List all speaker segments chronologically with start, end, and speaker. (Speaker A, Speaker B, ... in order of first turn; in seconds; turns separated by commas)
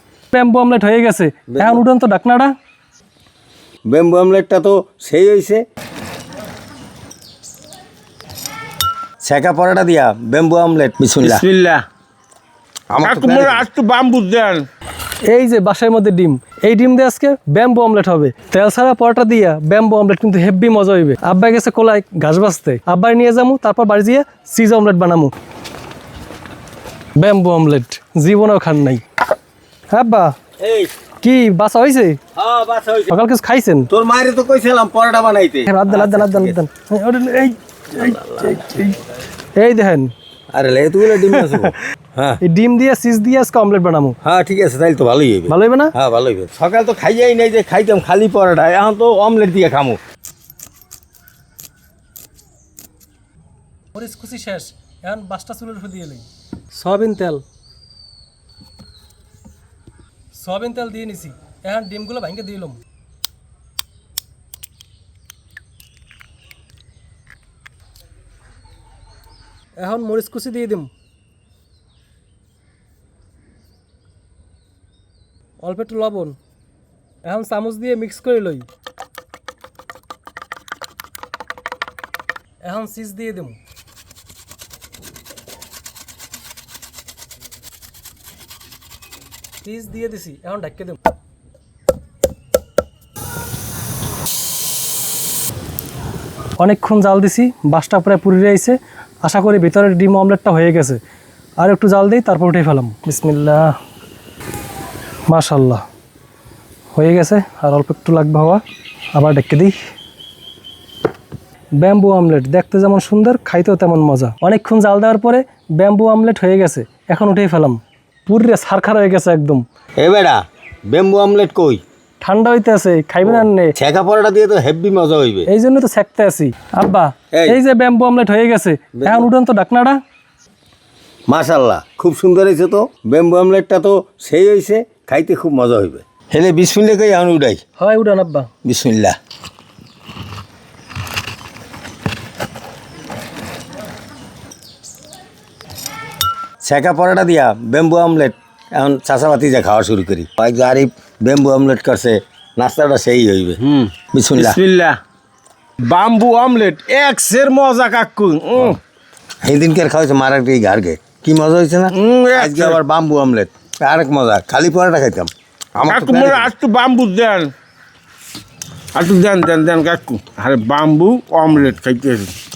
Speaker A: 0.3-2.5, Speaker B: 1.5-1.8, Speaker B: 3.9-5.6, Speaker B: 9.2-11.4, Speaker C: 11.2-11.8, Speaker B: 12.9-13.7, Speaker C: 13.0-14.7, Speaker A: 15.3-25.3, Speaker A: 27.2-29.0, Speaker A: 29.9-30.3, Speaker B: 30.6-30.9, Speaker A: 31.2-32.2, Speaker B: 32.4-33.1, Speaker A: 33.1-33.9, Speaker B: 33.9-36.6, Speaker A: 35.7-39.0, Speaker B: 38.0-38.6, Speaker A: 39.6-40.1, Speaker B: 40.5-42.4, Speaker A: 41.2-41.7, Speaker A: 42.4-44.2, Speaker B: 44.2-50.0, Speaker A: 45.5-45.9, Speaker A: 53.9-57.4, Speaker A: 60.3-62.8, Speaker A: 69.8-70.9, Speaker A: 75.6-76.4, Speaker A: 77.2-78.7, Speaker A: 82.6-83.6, Speaker A: 89.6-91.0, Speaker A: 96.6-101.0, Speaker A: 101.6-103.8, Speaker A: 105.3-105.8, Speaker A: 106.9-108.6, Speaker A: 109.1-109.7, Speaker A: 111.8-119.6, Speaker B: 120.0-121.8, Speaker A: 122.2-123.7, Speaker B: 123.2-125.5, Speaker A: 125.5-130.0, Speaker B: 127.3-127.6, Speaker B: 128.9-129.3, Speaker B: 131.3-137.6, Speaker A: 137.8-138.5, Speaker B: 138.6-139.1, Speaker B: 146.6-153.6, Speaker C: 153.6-155.0, Speaker B: 154.1-154.6, Speaker C: 155.8-158.8, Speaker B: 159.4-166.5, Speaker C: 161.9-162.8, Speaker C: 165.8-167.5, Speaker C: 168.9-172.3